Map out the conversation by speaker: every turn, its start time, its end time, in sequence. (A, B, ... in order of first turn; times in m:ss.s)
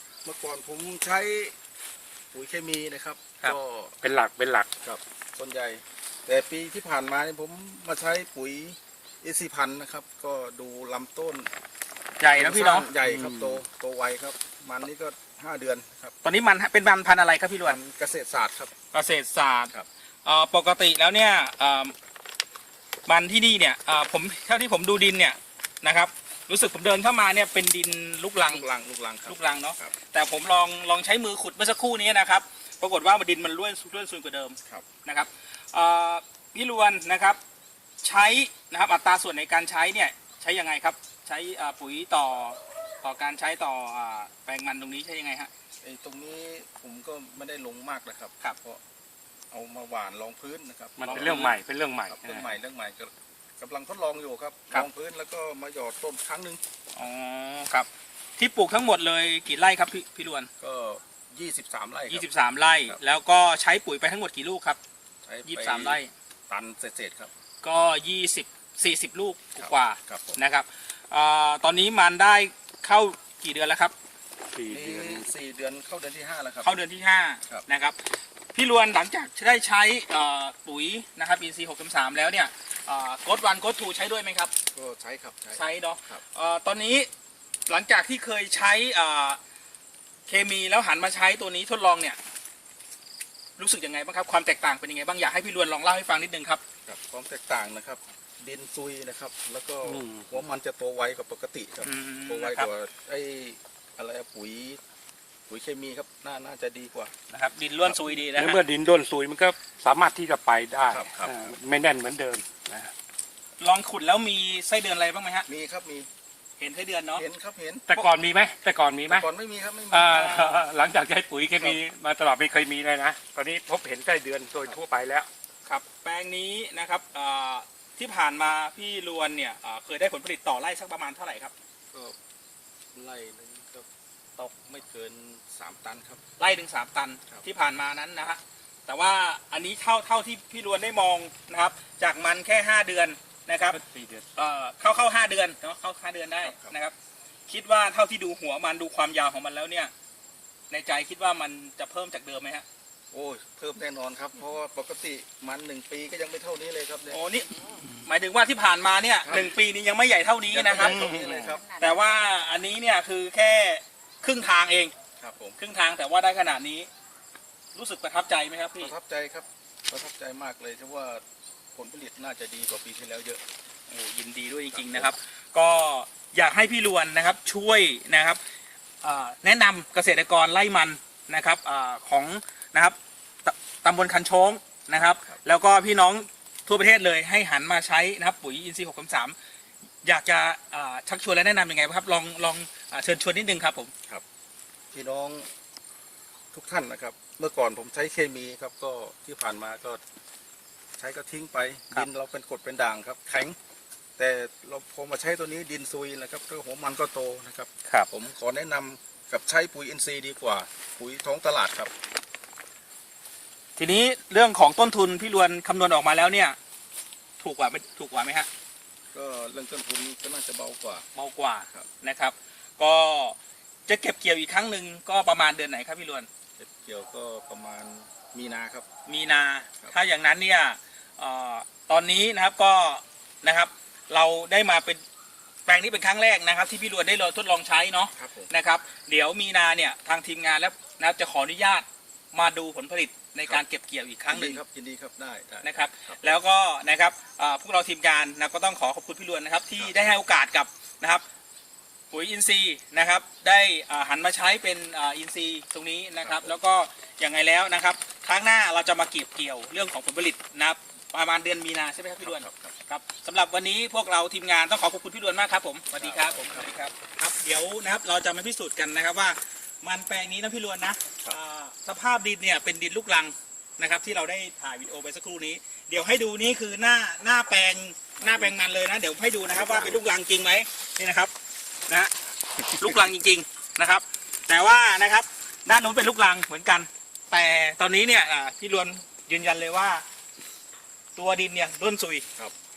0:00.2-0:01.5 A
0:02.3-0:04.0 A
0:04.0-0:04.7 B
0:04.8-0:11.5 A
0:12.2-0:12.9 C
0:12.4-0:16.1 A
0:13.0-0:13.6 B
0:16.2-0:17.8 C
0:17.6-0:18.7 A
0:18.9-0:19.7 C
0:20.2-0:21.9 C
0:23.0-0:28.6 C
0:28.4-0:29.9 A
0:29.2-0:37.4 C
0:38.0-0:45.5 C
0:45.8-0:48.8 A
0:49.5-0:51.5 A
0:51.0-0:52.6 B
0:51.1-0:51.5 C
0:52.1-0:56.6 A
0:56.9-1:00.5 C
1:00.6-1:02.2 A
1:02.1-1:04.8 C
1:05.2-1:07.3 A
1:05.4-1:06.1 C
1:07.6-1:13.9 C
1:09.6-1:10.4 A
1:14.5-1:15.3 B
1:14.7-1:16.8 A
1:16.6-1:18.0 C
1:18.5-1:24.5 C
1:24.7-1:26.2 A
1:25.5-1:27.1 C
1:27.7-1:29.4 C
1:30.3-1:32.2 C
1:33.6-1:36.6 C
1:36.8-1:44.8 A
1:39.8-1:40.3 B
1:41.8-1:42.7 C
1:45.5-1:47.1 A
1:47.3-1:48.6 C
1:48.2-1:52.9 B
1:50.9-1:51.6 A
1:53.6-1:55.5 C
1:55.5-1:56.1 A
1:56.6-1:57.2 C
1:57.1-1:57.9 A
1:57.9-1:59.2 B
1:59.0-2:00.5 A
1:59.9-2:05.3 B
2:00.1-2:00.6 C
2:05.6-2:11.5 C
2:12.9-2:16.2 A
2:16.4-2:23.8 C
2:23.7-2:24.3 B
2:24.4-2:26.9 C
2:26.4-2:26.8 A
2:27.5-2:29.9 C
2:30.7-2:32.6 C
2:33.1-2:37.2 A
2:37.1-2:41.1 C
2:39.2-2:39.5 A
2:40.5-2:41.7 A
2:40.8-2:41.6 B
2:41.8-2:44.9 C
2:45.2-2:45.6 A
2:45.6-2:46.9 C
2:47.7-2:48.9 C
2:48.8-2:53.4 A
2:53.9-2:58.4 C
2:54.7-2:55.1 A
2:59.0-3:09.4 C
3:04.9-3:05.4 A
3:10.0-3:13.9 C
3:14.9-3:15.5 A
3:16.5-3:20.0 A
3:21.0-3:23.6 A
3:24.2-3:31.9 A
3:33.8-3:36.6 C
3:37.4-3:38.5 C
3:39.1-3:41.0 A
3:41.1-3:46.3 C
3:46.6-3:48.9 A
3:49.0-3:55.0 C
3:55.6-4:04.6 C
3:58.2-3:58.5 A
4:04.3-4:06.4 A
4:05.6-4:11.2 C
4:12.1-4:41.3 C
4:16.2-4:16.5 A
4:22.2-4:22.7 A
4:26.0-4:26.7 A
4:38.2-4:38.5 A
4:39.5-4:40.0 A
4:41.9-4:42.1 C
4:42.6-4:43.0 A
4:42.7-4:50.0 C
4:51.2-4:52.2 C